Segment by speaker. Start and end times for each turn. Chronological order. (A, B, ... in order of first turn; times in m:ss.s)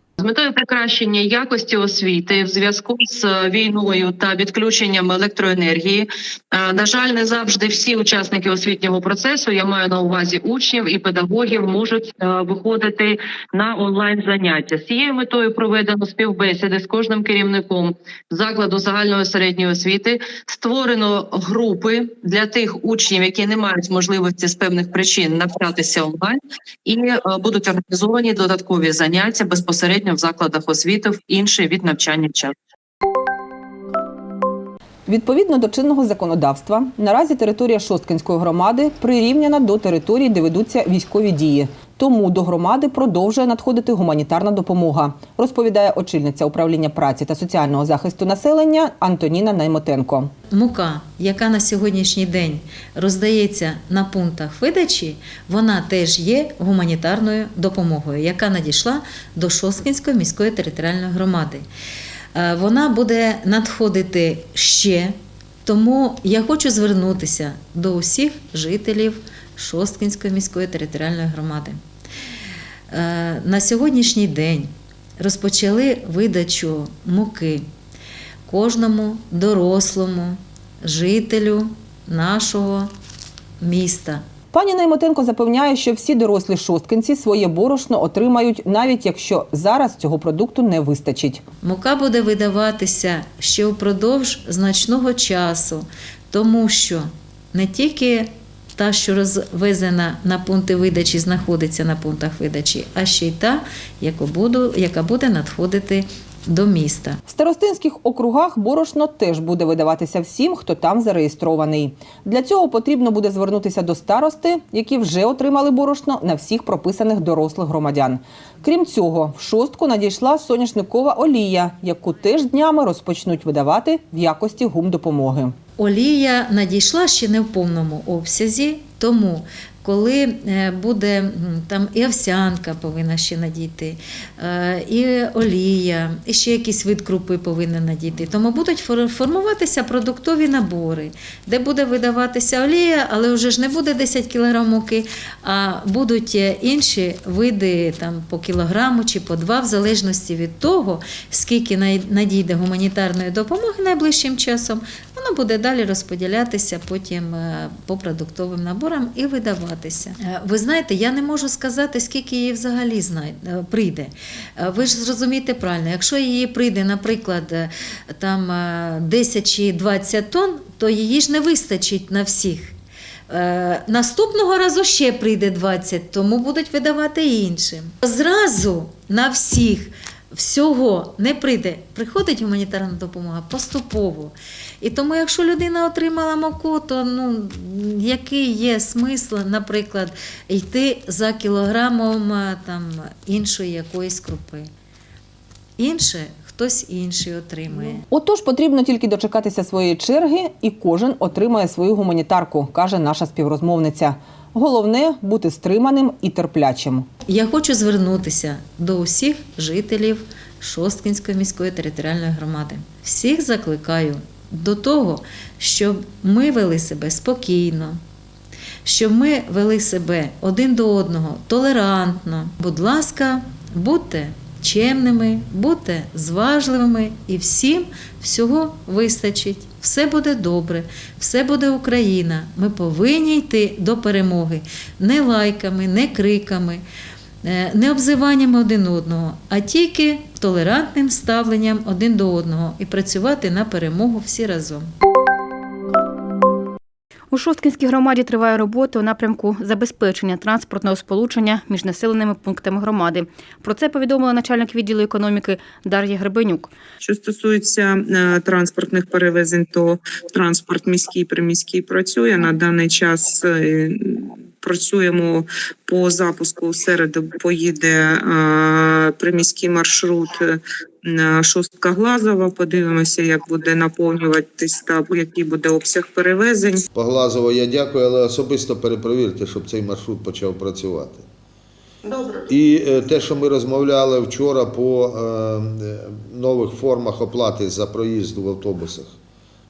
0:00.2-0:32.5 A
0:35.1-0:50.3 B
0:50.5-1:01.6 C
1:02.3-1:05.1 C
1:05.6-1:11.8 C
1:12.9-1:17.6 C
1:18.4-1:22.9 C
1:23.6-1:24.2 C
1:24.5-1:31.4 B
1:31.6-1:47.2 C
1:47.3-2:05.5 B
2:05.8-2:52.7 C
2:53.3-3:14.7 C
3:15.8-3:18.0 C
3:18.1-3:27.0 B
3:27.3-3:38.0 C
3:38.8-3:56.8 C
3:57.4-4:04.9 C
4:07.3-4:16.7 D
4:17.0-4:36.8 E
4:36.9-4:41.2 F
4:42.5-4:49.1 F